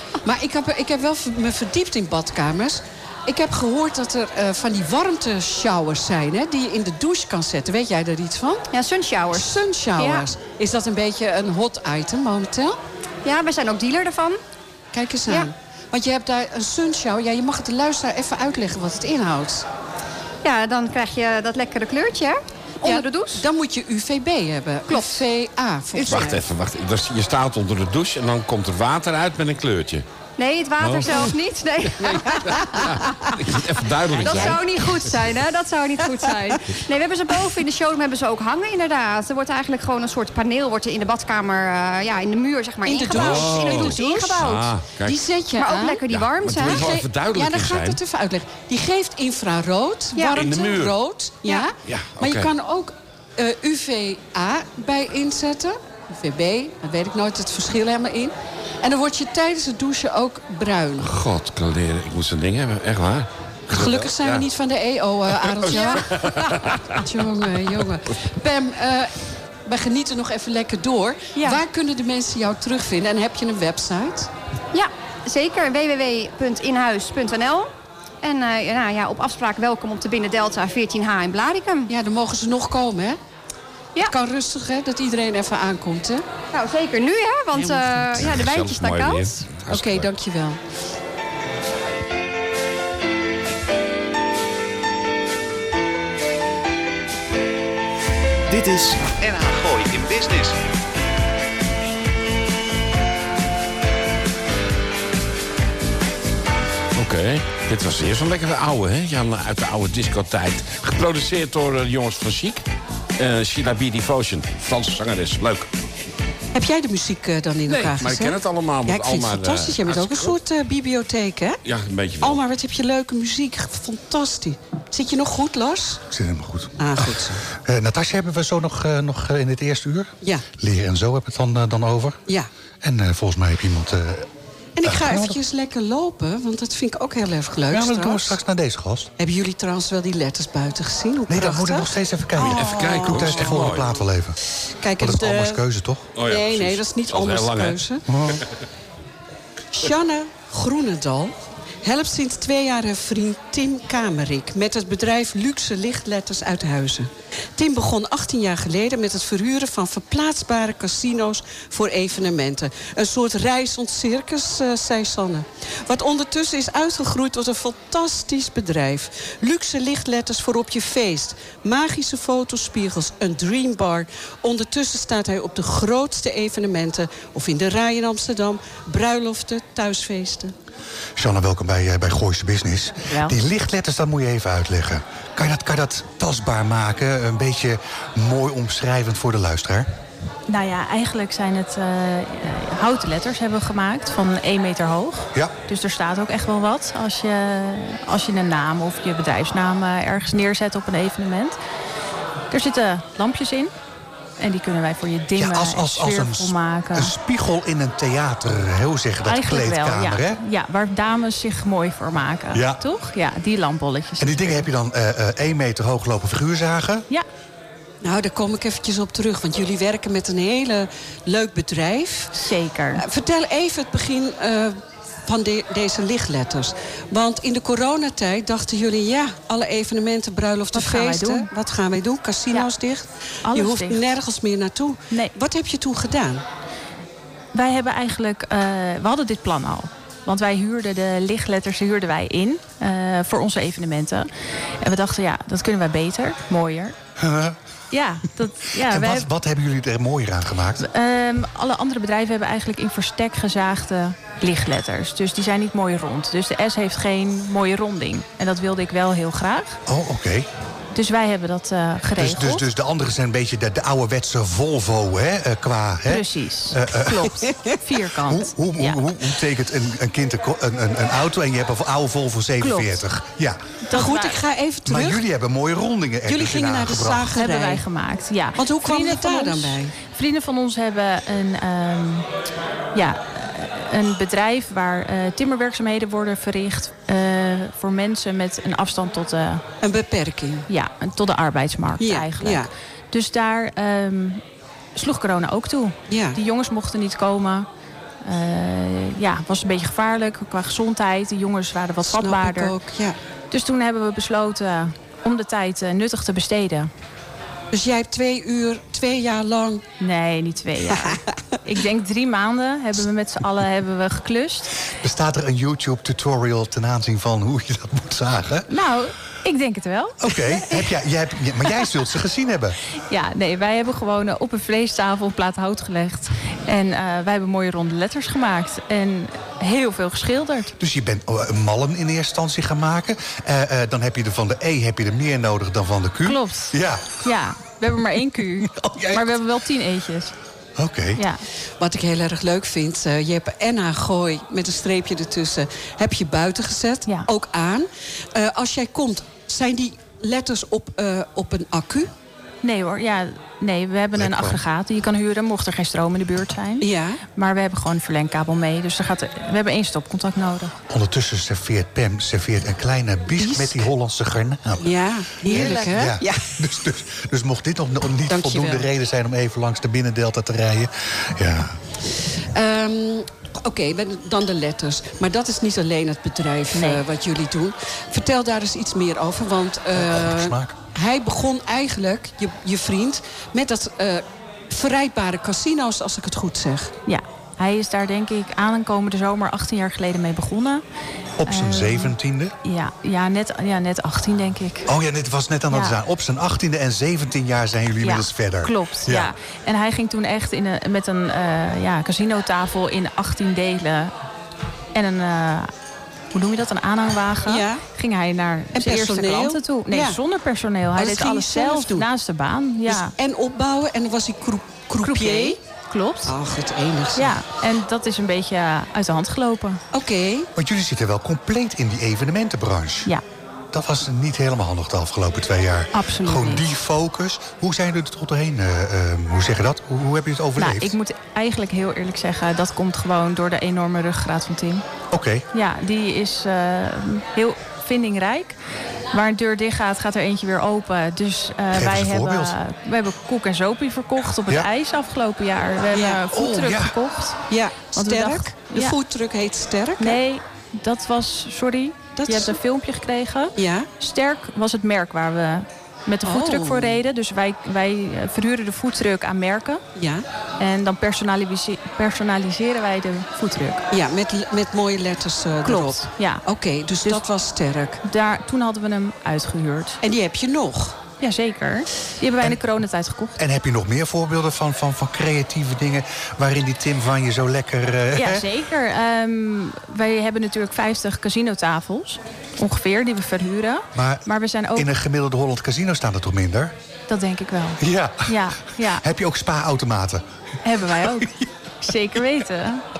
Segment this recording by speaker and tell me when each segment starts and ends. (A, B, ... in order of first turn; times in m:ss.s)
0:00.2-0:08.6 A
0:08.7-0:10.3 B
0:09.3-0:12.8 A
0:13.2-0:14.4 B
0:14.9-0:19.6 A
0:20.4-0:23.4 B
0:22.8-0:26.4 A
0:24.9-0:25.2 B
0:26.0-0:30.0 C
0:30.4-0:44.7 B
0:30.8-0:31.3 C
0:32.0-0:34.6 C
0:34.2-0:34.6 A
0:42.8-0:46.0 A
0:43.1-0:45.3 C
0:45.6-0:47.0 B
0:46.1-0:48.0 C
0:46.6-1:01.1 A
0:50.2-0:50.5 B
0:50.4-0:50.9 C
0:51.8-0:52.5 C
1:01.0-1:04.4 C
1:03.7-1:09.1 A
1:05.3-1:07.0 C
1:05.6-1:06.0 B
1:09.6-1:14.3 A
1:11.4-1:11.6 B
1:14.7-1:17.7 B
1:18.2-1:21.9 B
1:21.9-1:23.2 A
1:24.0-1:26.2 A
1:26.5-1:29.4 B
1:27.5-1:27.9 A
1:28.1-1:30.1 C
1:29.7-1:30.6 A
1:38.5-1:40.6 D
1:47.0-1:52.6 C
1:53.2-1:55.7 C
1:56.5-2:01.6 A
1:57.7-2:00.4 C
2:01.6-2:02.4 C
2:02.2-2:06.0 A
2:06.1-2:12.2 E
2:06.8-2:07.4 A
2:12.8-2:14.3 E
2:14.8-2:18.4 A
2:14.8-2:15.4 E
2:17.7-2:19.1 E
2:19.2-2:23.5 A
2:21.3-2:24.4 E
2:22.4-2:24.0 C
2:24.8-2:25.6 A
2:25.0-2:26.1 E
2:26.2-2:27.8 C
2:26.2-2:28.0 A
2:28.1-2:28.4 E
2:29.7-3:00.5 A
3:01.2-3:09.8 E
3:10.5-3:21.6 F
3:22.5-3:23.7 F
3:24.4-3:27.1 F
3:25.4-3:30.4 E
3:29.2-3:34.6 F
3:32.5-3:32.8 E
3:34.2-3:37.1 E
3:38.0-3:42.3 A
3:42.4-3:43.0 F
3:43.0-3:56.4 A
3:50.7-3:51.5 F
3:53.4-3:54.0 F
3:57.5-4:04.3 F
4:04.8-4:07.0 F
4:07.2-4:07.6 E
4:07.9-4:09.3 F
4:08.8-4:10.8 E
4:10.8-4:19.8 F
4:19.8-4:20.5 E
4:20.9-4:22.7 F
4:22.2-4:27.4 E
4:26.0-4:29.0 F
4:28.2-4:33.6 E
4:32.6-4:33.0 F
4:33.8-4:34.4 F
4:33.9-4:35.2 A
4:34.8-4:37.3 E
4:36.3-4:37.8 A
4:37.3-4:42.2 F
4:38.6-4:39.9 A
4:42.9-4:49.6 F
4:49.8-4:50.7 A
4:50.7-4:54.4 F
4:52.0-4:52.7 A
4:55.0-4:57.7 F
4:56.1-4:56.4 A
4:58.2-5:02.7 F
5:02.0-5:03.2 A
5:03.5-5:06.9 F
5:07.7-5:09.8 A
5:10.0-5:14.7 F
5:10.9-5:11.3 A
5:15.0-5:18.7 E
5:18.7-5:20.8 F
5:20.2-5:22.8 E
5:23.1-5:30.7 F
5:30.8-5:37.2 E
5:36.2-5:40.3 F
5:38.6-5:39.4 E
5:40.8-5:41.2 E
5:41.2-5:41.4 F
5:41.8-5:52.1 A
5:52.6-6:00.7 F
5:54.1-5:54.6 E
5:56.8-5:57.2 A
6:00.9-6:11.8 E
6:03.4-6:03.8 A
6:04.8-6:06.5 A
6:08.3-6:08.8 A
6:12.5-6:26.9 A
6:16.7-6:17.0 F
6:19.9-6:20.8 E
6:27.1-6:30.8 F
6:31.4-6:32.5 E
6:31.4-6:34.9 F
6:34.9-6:39.3 E
6:35.7-6:36.0 F
6:38.0-6:44.1 F
6:44.9-6:45.7 F
6:46.3-6:53.1 F
6:47.4-6:47.8 A
6:48.7-6:50.2 A
6:51.0-6:52.1 A
6:52.9-6:55.6 A
6:55.0-6:56.3 F
6:56.2-6:57.4 A
6:57.2-6:59.8 F
6:59.9-7:00.5 A
7:00.6-7:03.1 E
7:03.7-7:11.0 E
7:05.9-7:06.6 F
7:10.6-7:14.8 F
7:15.1-7:15.4 E
7:15.5-7:18.5 F
7:19.1-7:27.4 F
7:21.7-7:22.6 E
7:24.4-7:24.7 E
7:25.9-7:26.2 A
7:26.3-7:27.0 E
7:27.5-7:30.2 A
7:27.9-7:29.0 F
7:30.0-7:39.8 F
7:32.2-7:32.6 A
7:33.6-7:33.9 A
7:36.2-7:37.0 A
7:40.0-7:40.2 A
7:40.6-7:43.8 F
7:43.9-7:48.0 A
7:45.6-7:46.4 F
7:48.0-7:50.0 F
7:50.0-7:51.0 A
7:51.2-7:53.3 F
7:53.4-7:58.5 E
7:58.1-8:04.9 F
8:03.9-8:06.7 E
8:07.1-8:09.0 F
8:07.8-8:10.2 E
8:10.6-8:12.8 F
8:11.0-8:11.4 E